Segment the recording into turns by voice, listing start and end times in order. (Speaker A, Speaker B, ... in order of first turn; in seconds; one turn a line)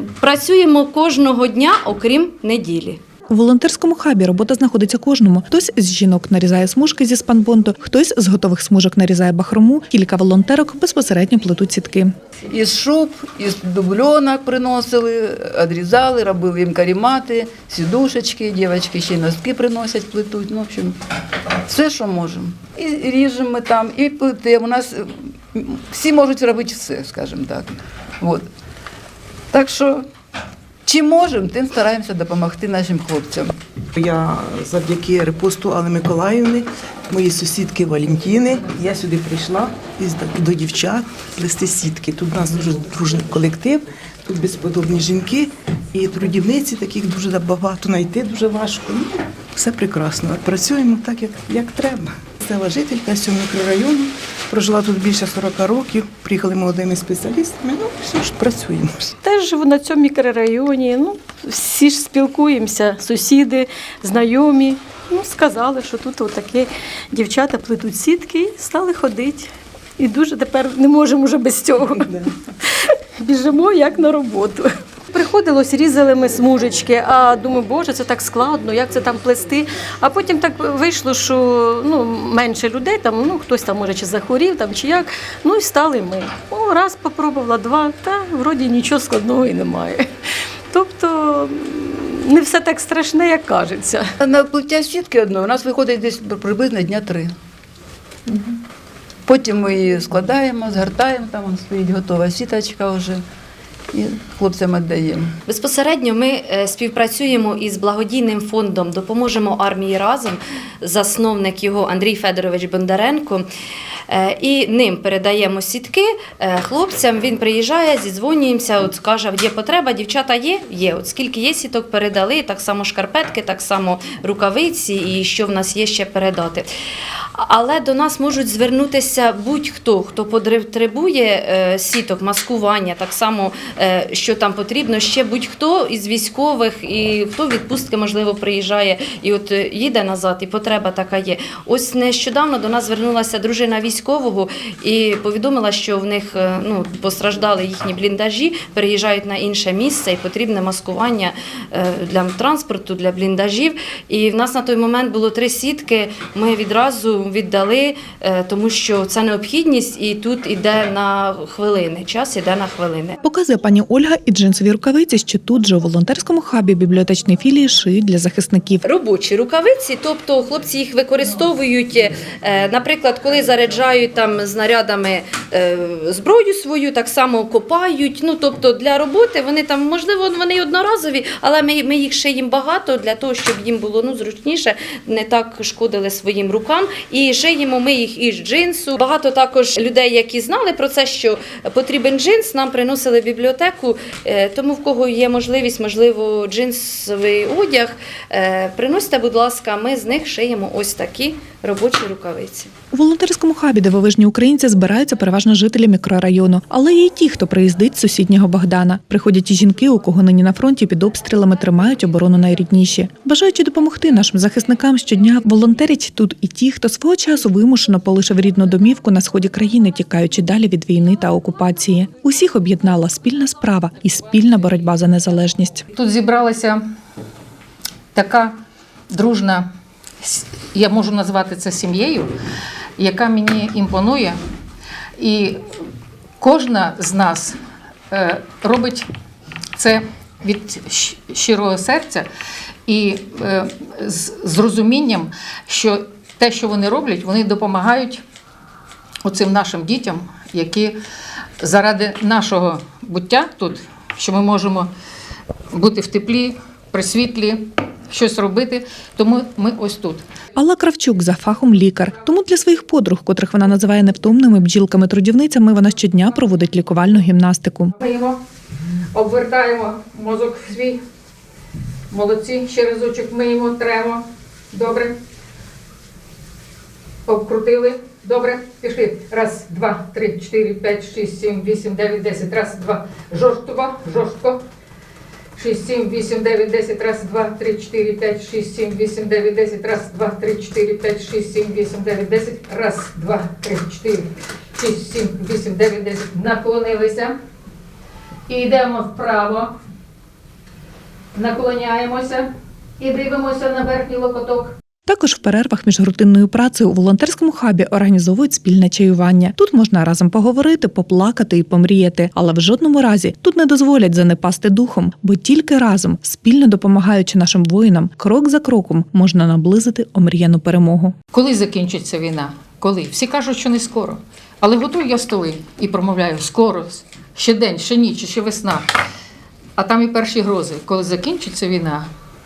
Speaker A: 0.2-3.0
Speaker B: 3.3-12.1
Speaker C: 12.5-21.0
Speaker C: 21.7-28.5
Speaker C: 29.5-30.1
Speaker C: 30.9-33.5
Speaker D: 34.0-59.1
Speaker E: 59.2-90.1
Speaker E: 90.7-94.0
Speaker C: 94.2-97.3
Speaker C: 99.3-103.2
Speaker C: 103.9-105.3
Speaker A: 105.5-113.5
Speaker A: 114.1-126.7
Speaker A: 127.4-163.2
Speaker B: 163.2-168.8
Speaker A: 168.8-202.7
Speaker B: 202.9-225.9
Speaker F: 225.9-226.8
Speaker F: 228.1-228.5
Speaker F: 229.1-229.7
Speaker F: 230.2-232.3
Speaker F: 233.0-234.4
Speaker F: 235.2-235.6
Speaker F: 236.4-237.6
Speaker F: 238.1-239.1
Speaker F: 239.8-242.3
Speaker F: 242.9-248.2
Speaker F: 249.2-251.0
Speaker F: 251.6-254.9
Speaker F: 255.7-260.2
Speaker B: 260.6-267.9
Speaker F: 268.0-268.4
Speaker F: 269.1-271.0
Speaker F: 272.1-275.2
Speaker F: 277.3-284.6
Speaker F: 285.6-297.3
Speaker F: 298.5-299.7
Speaker F: 301.4-302.5
Speaker F: 303.0-304.7
Speaker B: 305.1-321.2
Speaker F: 321.3-328.9
Speaker F: 329.8-332.1